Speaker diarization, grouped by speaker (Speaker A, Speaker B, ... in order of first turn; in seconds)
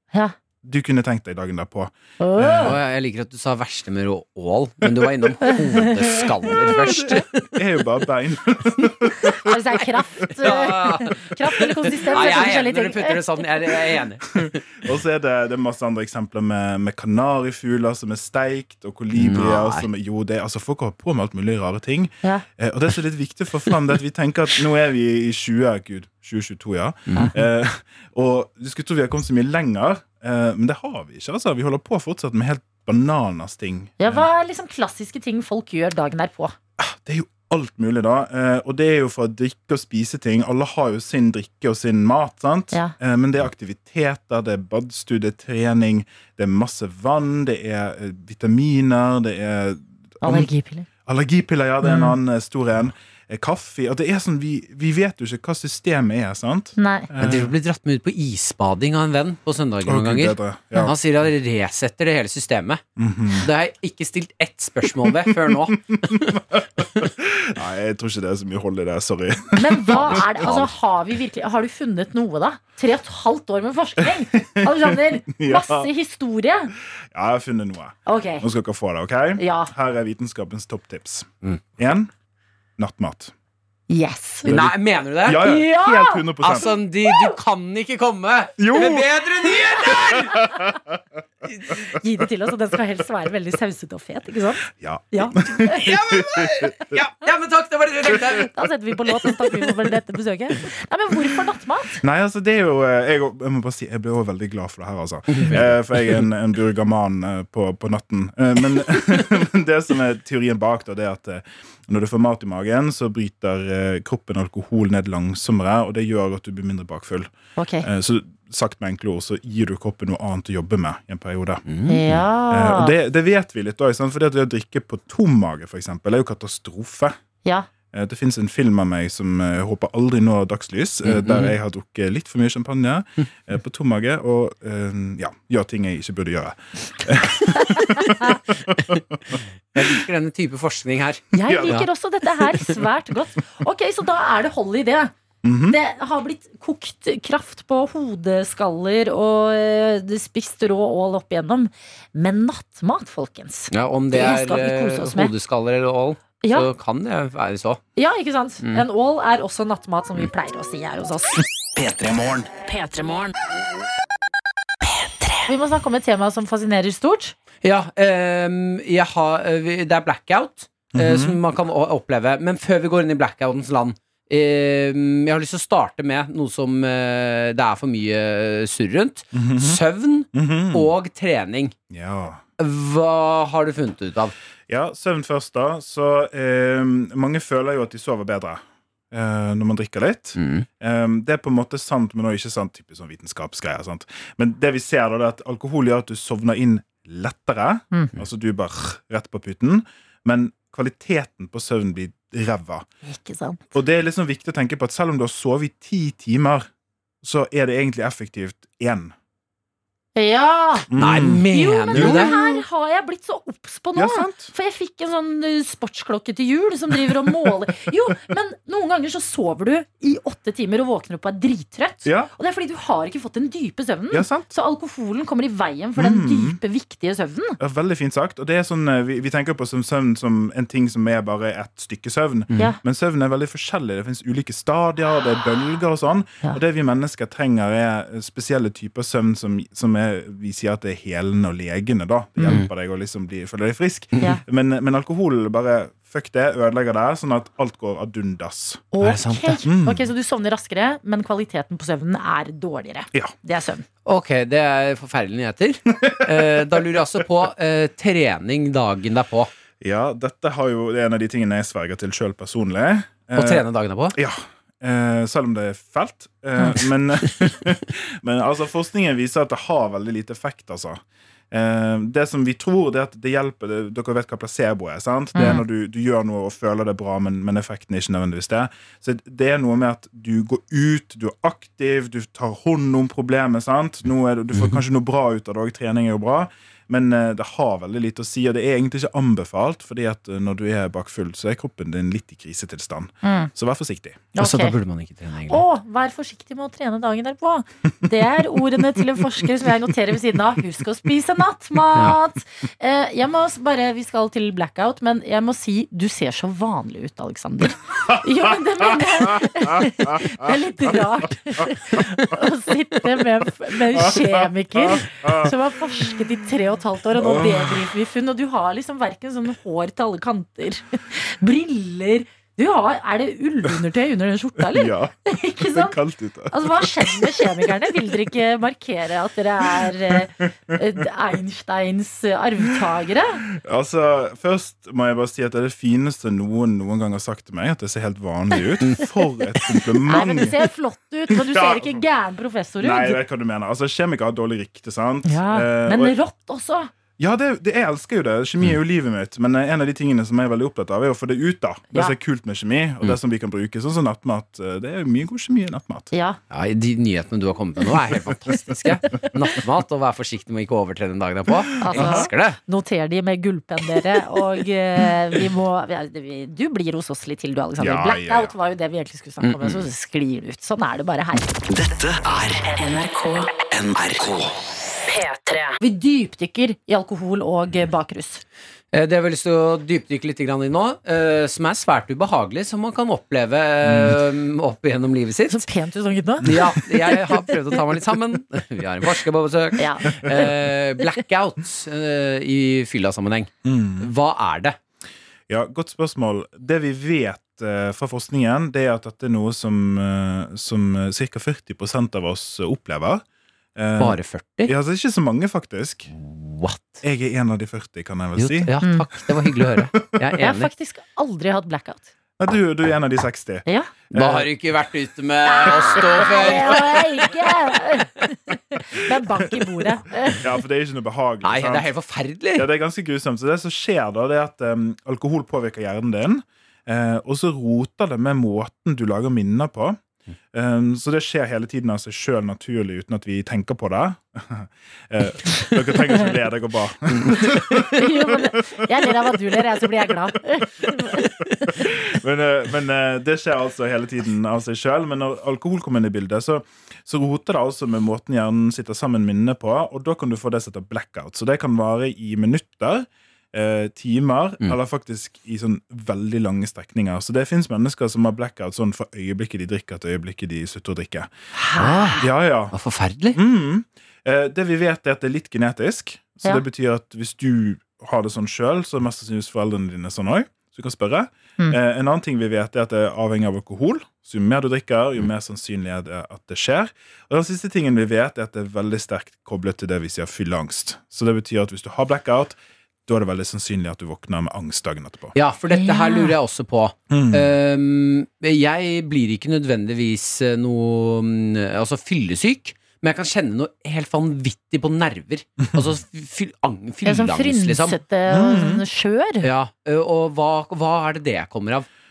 Speaker A: 0.6-2.8, 6.7-9.6, 14.8-34.3, 36.8-50.5, 51.0-57.5, 59.9-60.9, 63.0-63.5, 65.1-70.6, 74.3-75.9, 77.1-82.1, 82.8-83.3, 84.5-86.7, 88.6-89.1, 90.0-90.8, 94.7-96.9, 102.0-117.3, 117.8-121.6, 122.5-127.2, 127.9-139.4, 141.4-141.8, 145.4-145.8, 170.9-171.4, 179.3-179.8, 180.3-180.9, 181.9-182.4, 184.7-202.9, 203.7-206.7, 207.2-209.1, 210.9-212.6, 214.0-214.5, 222.0-222.3, 224.1-224.5, 226.0-226.6, 227.6-248.9, 249.7-250.1, 255.9-256.8, 259.8-294.3, 308.1-311.0, 313.9-316.2, 317.2-317.8, 324.6-327.6, 333.6-340.6, 341.3-342.0, 342.8-346.1, 347.2-356.1, 361.7-362.3, 367.8-368.5, 383.9-384.2, 393.6-394.1, 395.5-403.2, 403.8-406.1, 407.0-408.7, 412.4-414.5, 420.4-421.9, 422.6-430.0, 430.5-438.6, 441.7-461.3, 462.2-462.8, 463.3-485.4, 487.1-487.5, 498.3-498.8
Speaker B: 2.2-2.8, 5.4-6.8, 9.4-13.2, 34.0-36.5, 50.2-50.9, 51.8-52.2, 56.8-57.1, 69.6-76.7, 78.1-78.5, 79.4-79.7, 83.9-84.5, 85.3-87.4, 92.0-95.9, 98.5-102.0, 117.6-117.9, 121.9-122.9, 127.4-127.7, 141.3-145.1, 145.7-155.3, 158.0-161.4, 165.4-167.3, 203.1-203.7, 210.2-210.9, 211.5-227.6, 248.9-253.8, 275.4-275.6, 293.2-293.5, 294.4-294.8, 295.5-326.0, 326.5-333.4, 340.1-343.2, 345.2-346.9, 356.1-356.4, 361.8-371.5, 375.8-378.4, 385.5-387.6, 389.8-390.5, 408.8-409.1, 410.4-412.1, 413.7-413.9, 415.5-420.4, 437.9-441.3, 461.6-462.2, 485.7-486.4, 497.1-499.5
Speaker C: 2.6-7.5, 10.4-14.6, 19.1-19.9, 57.2-62.8, 63.4-66.3, 70.1-70.7, 84.5-85.5, 86.4-90.5, 95.8-98.5, 105.4-106.2, 121.7-122.2, 131.0-131.6, 139.7-141.9, 153.7-157.8, 167.6-181.8, 182.6-184.3, 190.4-190.7, 211.0-212.4, 249.0-249.6, 254.1-259.5, 263.4-264.2, 284.5-284.8, 294.4-295.6, 356.5-362.6, 369.4-369.9, 378.9-385.7, 386.4-394.8, 404.0-404.7, 406.2-407.0, 408.4-410.7, 414.1-417.4, 421.4-422.7, 437.1-438.0, 461.8-463.4, 485.4-498.0, 499.4-501.9
Speaker D: 161.8-162.7, 371.7-372.8, 373.6-374.6
Speaker E: 162.8-163.3, 372.8-373.6, 375.1-375.8